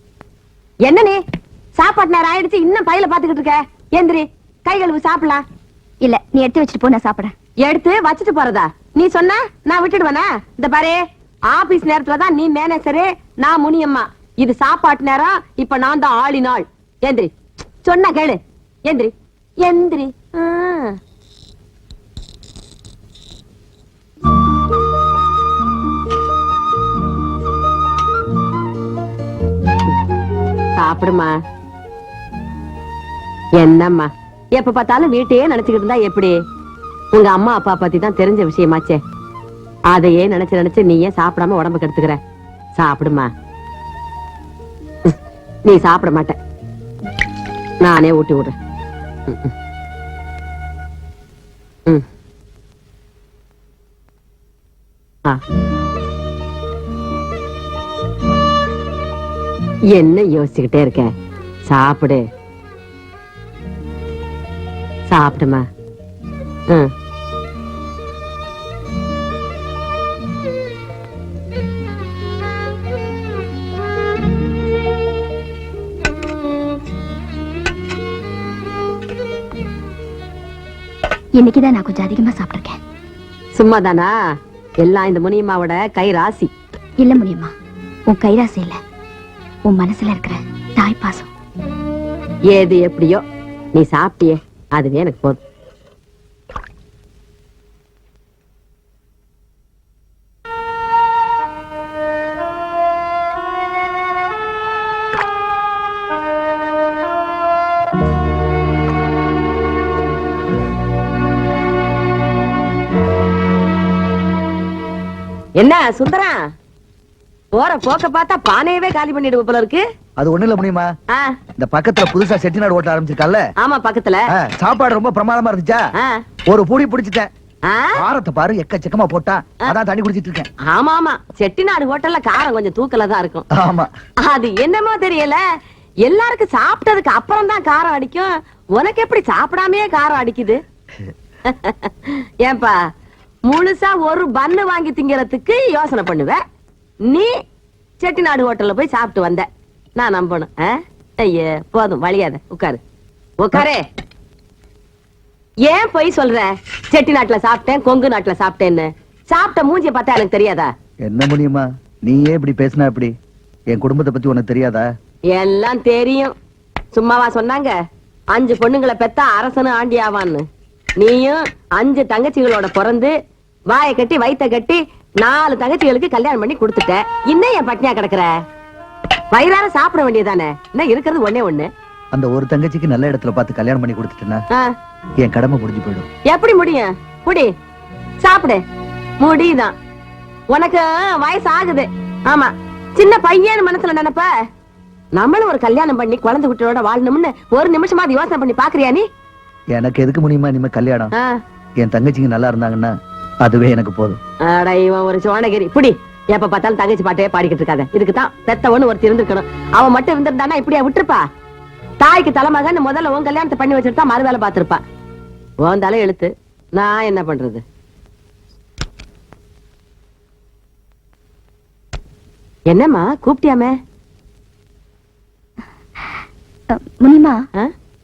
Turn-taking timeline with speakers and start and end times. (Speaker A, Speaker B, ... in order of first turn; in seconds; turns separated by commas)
Speaker A: 0.8-1.2, Speaker A: 1.8-5.4, Speaker B: 6.0-7.3, Speaker A: 7.6-17.3, Speaker A: 17.8-19.1, Speaker A: 19.6-21.0, Speaker A: 30.8-31.3, Speaker A: 33.6-36.3, Speaker A: 37.1-39.0, Speaker A: 39.9-42.2, Speaker A: 42.8-43.3, Speaker A: 45.6-46.4, Speaker A: 47.8-48.5, Speaker A: 59.9-61.1, Speaker A: 61.6-62.2, Speaker A: 65.1-65.6, Speaker B: 81.4-82.8, Speaker A: 83.5-84.1, Speaker A: 84.8-86.5, Speaker B: 87.0-87.5, Speaker B: 88.1-88.8, Speaker B: 89.7-91.3, Speaker A: 92.5-93.2, Speaker A: 93.7-95.4, Speaker A: 115.6-116.4, Speaker A: 117.5-119.8, Speaker C: 120.2-120.9, Speaker A: 121.1-121.3, Speaker C: 121.6-123.4, Speaker A: 123.6-124.3, Speaker C: 124.4-125.8, Speaker C: 126.5-127.3, Speaker A: 127.7-128.0, Speaker C: 128.0-130.5, Speaker A: 130.7-133.4, Speaker C: 133.5-133.9, Speaker A: 134.2-135.4, Speaker A: 136.0-140.6, Speaker A: 141.5-142.8, Speaker A: 143.5-146.4, Speaker A: 148.0-152.8, Speaker A: 153.4-153.8, Speaker A: 155.7-160.7, Speaker C: 161.1-163.1, Speaker C: 163.7-164.8, Speaker A: 165.3-166.3, Speaker A: 166.9-167.7, Speaker A: 168.3-170.4, Speaker A: 171.0-173.1, Speaker A: 173.7-178.3, Speaker A: 179.3-181.7, Speaker C: 182.1-184.4, Speaker C: 185.2-186.1, Speaker A: 186.3-187.5, Speaker A: 188.2-188.6, Speaker A: 189.2-189.7, Speaker A: 190.5-194.3, Speaker A: 195.2-199.0, Speaker C: 199.7-201.1, Speaker A: 201.1-201.4, Speaker C: 201.8-202.9, Speaker C: 203.4-204.2, Speaker A: 204.4-211.2, Speaker A: 212.0-214.8, Speaker A: 215.6-217.6, Speaker A: 222.7-223.7, Speaker B: 227.0-227.4